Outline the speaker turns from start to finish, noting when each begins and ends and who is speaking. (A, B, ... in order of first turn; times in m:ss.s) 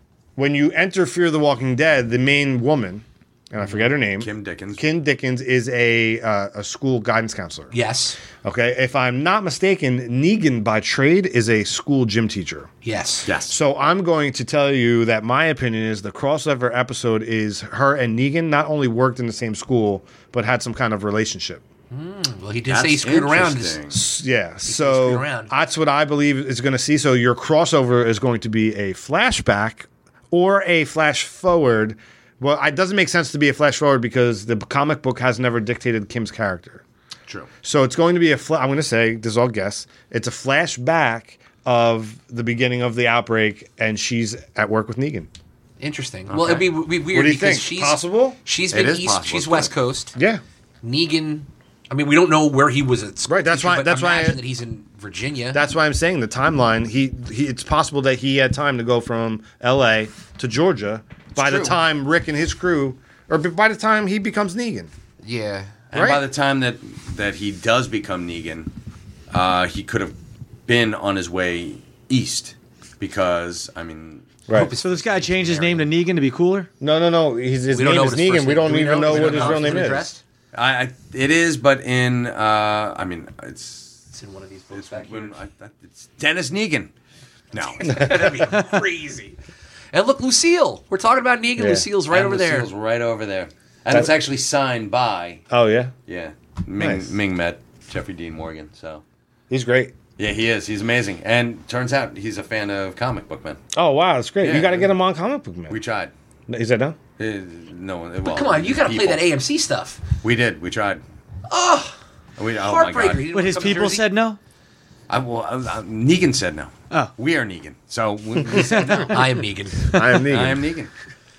0:00.4-0:07.7 A
0:04.2-0:04.8 B
0:07.7-0:08.2 C
0:08.4-0:12.7 A
0:12.8-0:13.3 C
0:13.3-0:13.6 B
0:13.5-0:21.6 A
0:21.9-0:23.8 C
0:22.7-0:24.0 B
0:23.9-0:36.8 A
0:24.6-0:25.5 C
0:37.6-0:45.3 A
0:45.8-0:50.2 C
0:46.3-0:46.7 B
0:47.1-0:48.4 A
0:48.7-0:49.7 B
0:50.2-0:50.4 A
0:50.8-0:55.6 C
0:53.3-0:54.4 A
0:55.5-1:04.9 A
1:01.4-1:01.8 B
1:05.2-1:05.8 C
1:05.9-1:08.7 B
1:05.9-1:06.2 A
1:09.3-1:10.2 B
1:10.7-1:14.4 B
1:14.5-1:14.7 A
1:14.5-1:15.9 C
1:14.8-1:16.7 D
1:16.8-1:20.1 A
1:17.7-1:20.2 C
1:19.0-1:19.9 B
1:20.5-1:24.0 B
1:24.1-1:25.4 C
1:24.7-1:26.9 B
1:27.5-1:28.1 B
1:27.8-1:29.4 C
1:27.9-1:28.5 A
1:29.9-1:32.7 C
1:31.6-1:31.9 A
1:32.1-1:35.4 B
1:35.5-1:35.9 A
1:36.1-1:39.0 B
1:36.8-1:37.1 A
1:39.5-1:40.0 A
1:40.2-1:43.6 B
1:43.7-1:45.8 A
1:44.4-1:44.9 B
1:45.7-1:46.1 B
1:46.5-1:47.0 A
1:47.2-1:49.2 B
1:48.2-1:50.0 C
1:50.2-1:51.0 B
1:51.5-1:52.0 C
1:52.4-1:53.8 B
1:52.6-1:54.1 C
1:53.3-1:54.4 D
1:55.1-1:59.4 B
1:58.5-1:59.2 D
1:58.9-2:00.0 C
1:59.9-2:00.7 A
1:59.9-2:00.2 D
2:00.1-2:00.9 B